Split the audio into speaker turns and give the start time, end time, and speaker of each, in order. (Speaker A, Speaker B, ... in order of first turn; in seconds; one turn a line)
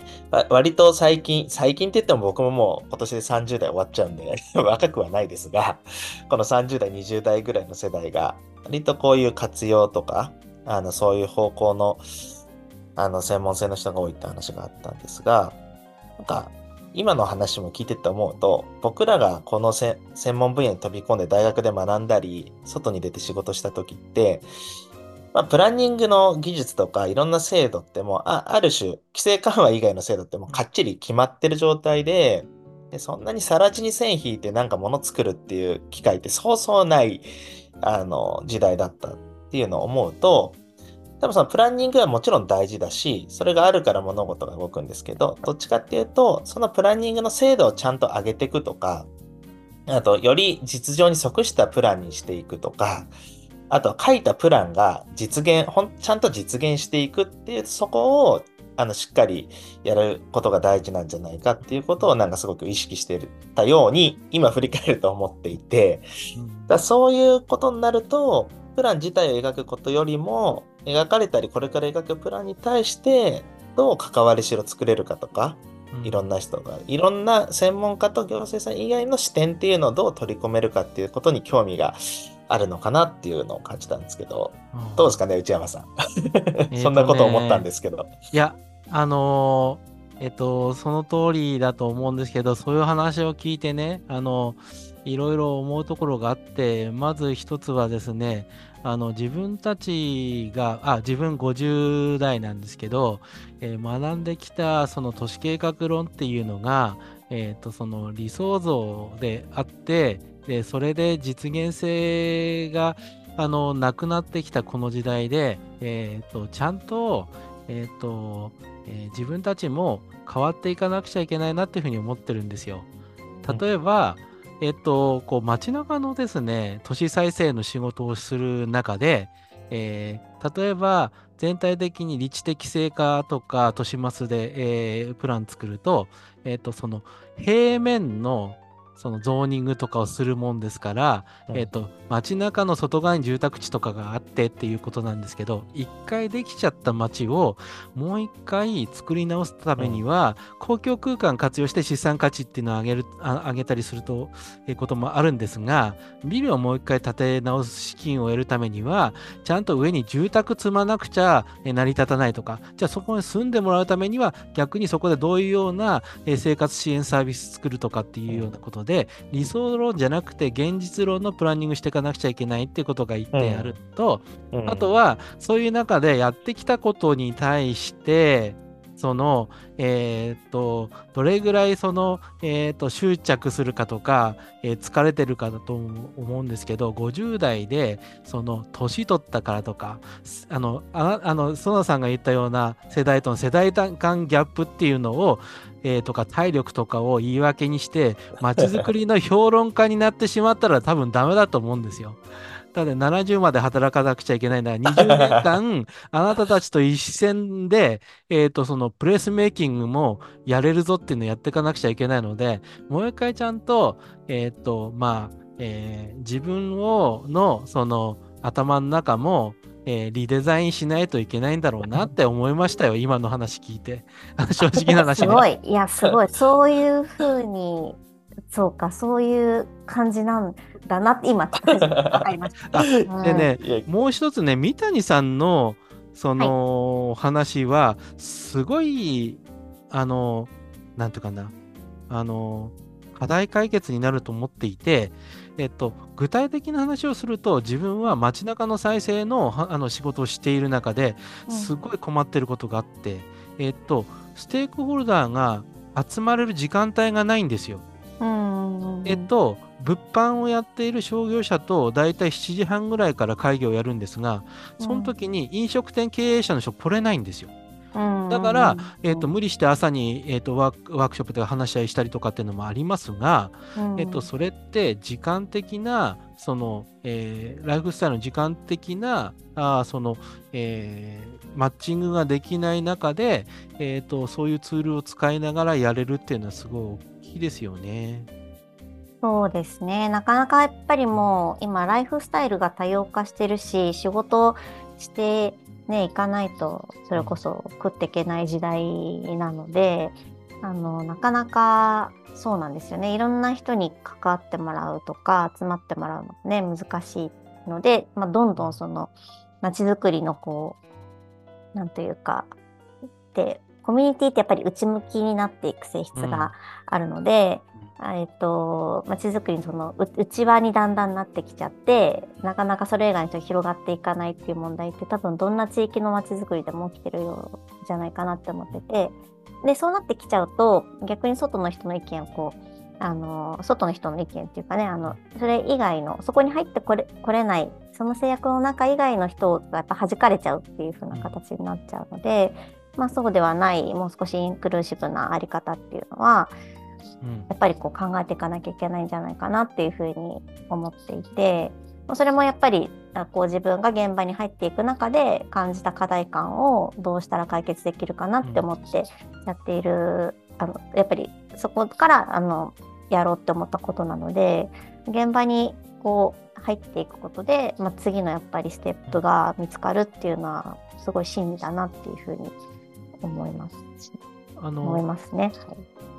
Speaker A: 0.3-12.0
Speaker A: 13.0-15.6
Speaker A: 16.2-24.5
Speaker A: 25.3-37.3
Speaker A: 37.8-40.6
Speaker A: 41.2-49.1
Speaker A: 49.9-53.1
Speaker A: 53.7-66.0
Speaker B: 61.6-62.1
Speaker B: 66.3-66.8
Speaker A: 66.7-88.1
Speaker B: 75.9-76.3
Speaker B: 84.7-85.2
Speaker B: 86.7-87.7
Speaker B: 88.3-122.9
Speaker B: 123.4-202.2
Speaker A: 149.8-150.0
Speaker A: 173.3-173.8
Speaker A: 174.5-174.9
Speaker B: 202.7-225.5
Speaker A: 205.0-205.6
Speaker C: 225.1-228.0
Speaker C: 228.5-233.5
Speaker A: 231.6-233.9
Speaker B: 232.7-241.6
Speaker B: 242.1-257.9
Speaker C: 251.5-251.7
Speaker C: 258.2-259.3
Speaker B: 259.1-267.5
Speaker C: 264.8-265.1
Speaker C: 267.9-269.3
Speaker B: 268.3-288.3
Speaker C: 273.8-274.3
Speaker C: 289.2-310.8
Speaker B: 291.1-291.4
Speaker B: 297.1-297.4
Speaker B: 308.6-308.8
Speaker C: 311.7-312.5
Speaker C: 313.3-346.6
Speaker B: 316.1-316.5
Speaker B: 341.1-341.4
Speaker B: 347.2-347.5
Speaker C: 347.5-372.6
Speaker C: 373.2-374.2
Speaker B: 374.6-375.1
Speaker C: 374.8-375.8